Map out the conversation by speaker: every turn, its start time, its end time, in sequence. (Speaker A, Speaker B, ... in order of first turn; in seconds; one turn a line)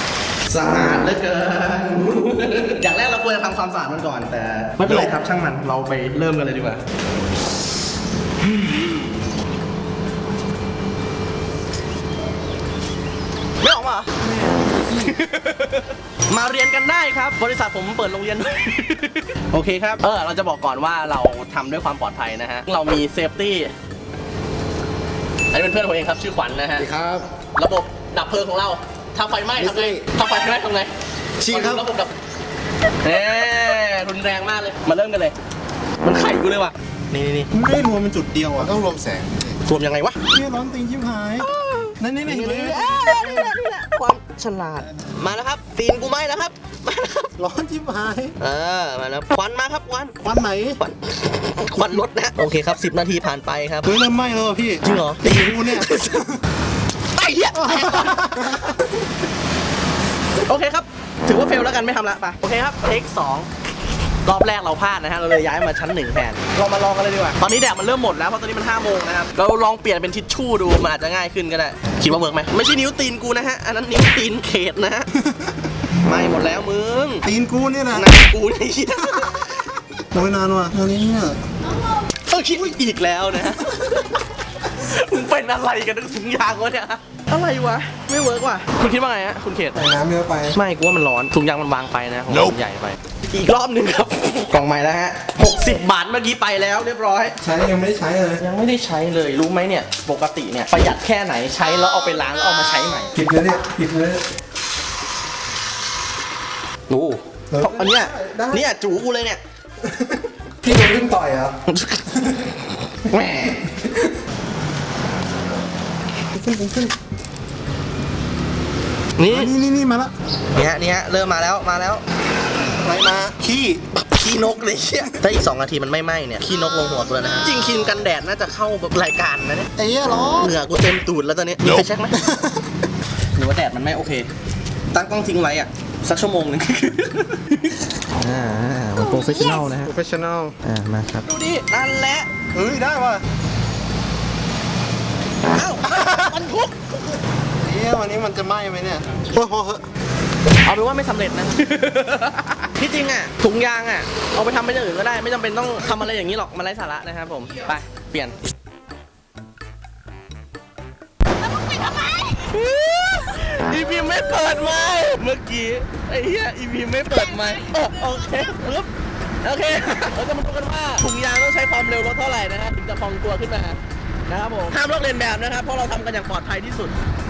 Speaker A: 0.5-6.8
Speaker A: 8.4-9.1
Speaker A: 13.6-14.1
Speaker B: 14.2-15.2
Speaker A: 14.9-23.7
Speaker A: 25.5-26.9
Speaker B: 26.8-27.3
Speaker A: 27.6-30.9
Speaker B: 29.6-30.1
Speaker B: 31.4-31.9
Speaker A: 31.4-32.1
Speaker A: 33.0-35.4
Speaker A: 36.0-37.5
Speaker B: 37.5-39.6
Speaker A: 39.7-40.2
Speaker B: 40.3-41.5
Speaker A: 41.4-47.3
Speaker B: 42.0-43.5
Speaker B: 47.4-48.4
Speaker A: 48.4-50.2
Speaker B: 50.2-50.8
Speaker A: 50.8-54.0
Speaker B: 53.9-56.3
Speaker A: 54.8-56.3
Speaker A: 57.1-58.8
Speaker B: 57.5-58.8
Speaker A: 60.5-63.5
Speaker A: 64.2-75.1
Speaker B: 75.1-75.5
Speaker A: 76.0-77.2
Speaker B: 77.2-78.1
Speaker A: 77.9-79.8
Speaker B: 80.1-81.4
Speaker A: 82.3-89.8
Speaker B: 89.8-90.5
Speaker A: 90.5-97.4
Speaker B: 97.4-98.4
Speaker A: 98.4-103.1
Speaker B: 103.1-104.2
Speaker A: 106.9-109.4
Speaker B: 107.5-108.7
Speaker B: 109.8-111.5
Speaker A: 111.7-112.0
Speaker A: 113.1-113.7
Speaker B: 113.5-114.1
Speaker B: 116.3-116.9
Speaker A: 119.2-119.5
Speaker B: 119.3-120.1
Speaker A: 120.5-122.0
Speaker B: 122.7-123.8
Speaker A: 123.9-129.7
Speaker B: 129.8-130.5
Speaker A: 130.4-132.2
Speaker B: 132.2-132.6
Speaker A: 133.3-134.3
Speaker A: 134.9-139.9
Speaker B: 139.7-140.6
Speaker A: 140.6-142.3
Speaker B: 142.5-143.2
Speaker A: 145.5-147.0
Speaker B: 147.6-149.9
Speaker A: 150.6-158.4
Speaker A: 161.5-168.9
Speaker A: 169.4-176.9